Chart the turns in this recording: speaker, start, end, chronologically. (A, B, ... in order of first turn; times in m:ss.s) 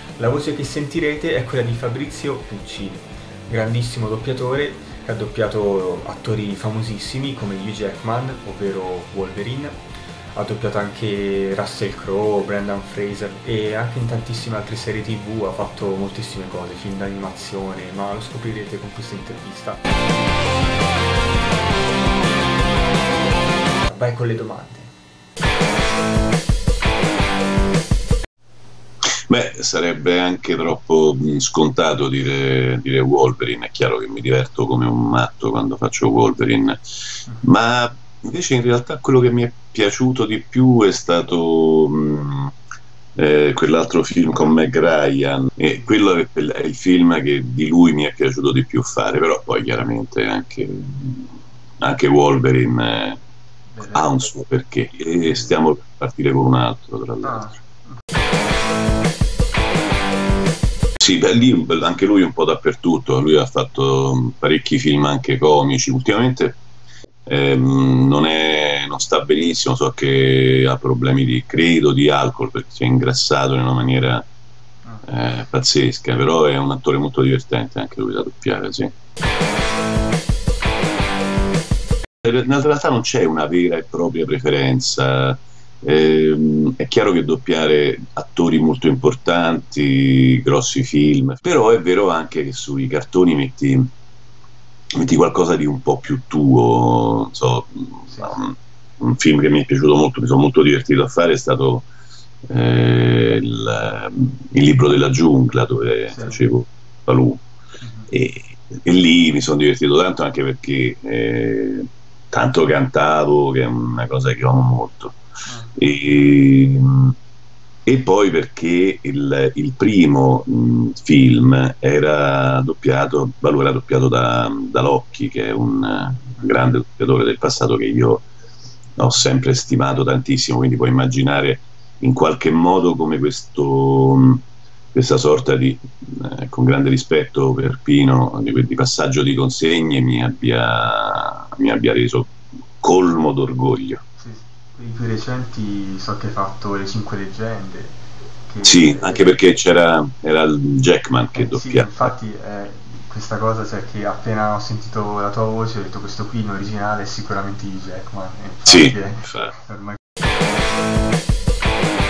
0:00.2-0:09.8 A
0:10.4-0:19.8 A
0:23.8-0:24.9 A
0:29.3-0:36.8 B
0:37.4-0:42.5 B
0:43.2-0:51.3 B
0:51.8-0:53.2 B
0:53.8-0:57.6 B
1:01.0-1:06.6 B
1:07.3-1:14.3 B
1:15.0-1:18.9 B
1:22.2-1:33.9 B
1:35.0-1:41.9 B
1:38.1-1:38.4 A
1:42.5-1:47.4 B
1:46.1-1:46.4 A
1:47.8-1:48.1 A
1:48.1-1:55.2 B
1:55.5-1:55.7 A
1:55.8-1:57.2 B
1:57.9-2:08.2 B
2:09.0-2:24.0 B
2:24.2-2:29.4 A
2:28.6-2:32.1 B
2:31.3-2:40.0 A
2:38.7-2:39.5 B